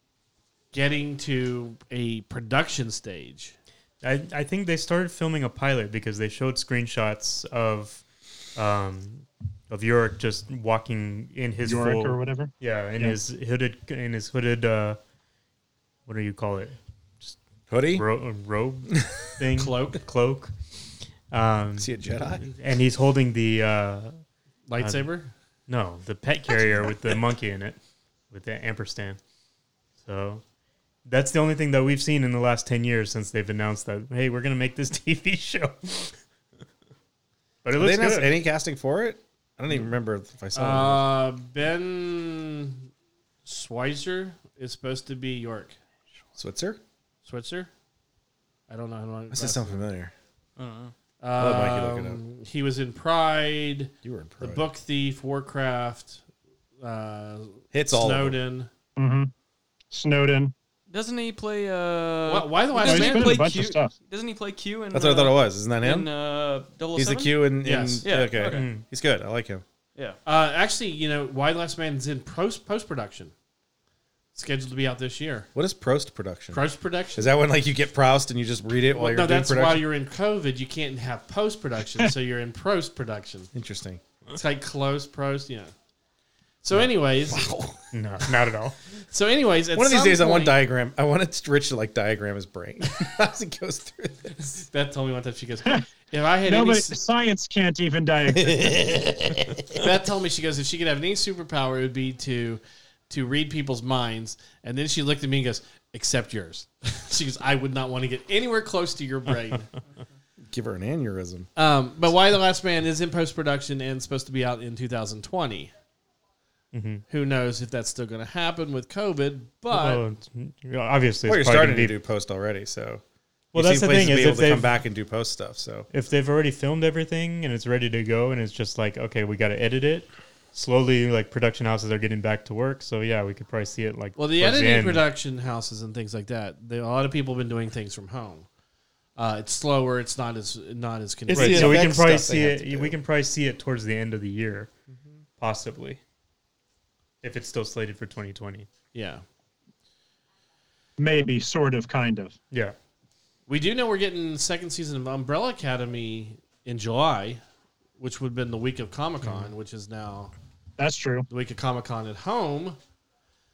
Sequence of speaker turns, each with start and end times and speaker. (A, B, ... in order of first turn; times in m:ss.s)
0:00.7-0:03.6 A
0:04.0-0:08.0 B
0:08.6-0:15.0 B
0:11.6-0:13.2 C
0:16.1-0:17.4 B
0:17.7-0:18.0 D
0:17.9-0:20.5 B
0:19.6-0:20.0 A
0:21.3-0:24.2 B
0:21.8-0:22.5 D
0:24.7-0:25.3 A
0:24.8-0:25.1 B
0:25.7-0:27.8 B
0:28.3-0:29.2 B
0:30.0-0:30.4 B
0:31.1-0:36.2 B
0:37.6-0:38.3 B
0:37.8-0:41.1 D
0:40.5-0:42.9 A
0:43.5-0:45.8 A
0:46.4-0:46.8 D
0:47.3-0:47.7 A
0:48.7-0:49.8 A
0:49.3-0:50.1 D
0:50.6-0:50.9 E
0:51.2-0:56.2 A
0:51.4-0:52.2 D
0:54.0-0:54.6 D
0:56.8-0:58.7 A
0:57.7-0:58.4 D
0:59.0-0:59.3 C
0:59.9-1:00.5 C
1:00.9-1:07.4 E
1:02.3-1:03.4 A
1:02.8-1:03.9 C
1:04.9-1:06.1 D
1:07.0-1:09.6 D
1:07.6-1:08.1 A
1:08.0-1:08.7 E
1:08.5-1:08.8 B
1:10.2-1:13.3 A
1:14.4-1:15.5 A
1:15.6-1:16.6 D
1:16.5-1:17.3 A
1:17.2-1:19.9 D
1:18.9-1:23.5 A
1:23.5-1:24.0 D
1:24.3-1:25.7 A
1:26.6-1:27.5 A
1:27.3-1:27.9 D
1:27.9-1:28.8 B
1:29.1-1:30.6 A
1:29.7-1:34.5 D
1:34.4-1:37.0 A
1:36.5-1:38.6 C
1:38.3-1:39.8 D
1:39.8-1:49.7 A
1:50.5-1:51.5 D
1:51.6-1:55.7 A
1:56.7-1:57.0 B
1:57.1-2:00.0 A
1:59.7-2:01.9 B
2:01.3-2:03.0 D
2:03.5-2:04.8 B
2:03.5-2:05.9 D
2:05.9-2:15.0 B
2:14.2-2:18.5 A
2:19.2-2:21.9 A
2:21.3-2:23.0 D
2:21.3-2:24.7 B
2:25.4-2:26.0 B
2:27.2-2:28.7 B
2:28.9-2:29.2 A
2:31.0-2:32.3 C
2:33.5-2:37.4 A
2:38.0-2:40.3 A
2:40.8-2:41.3 C
2:41.3-2:42.8 A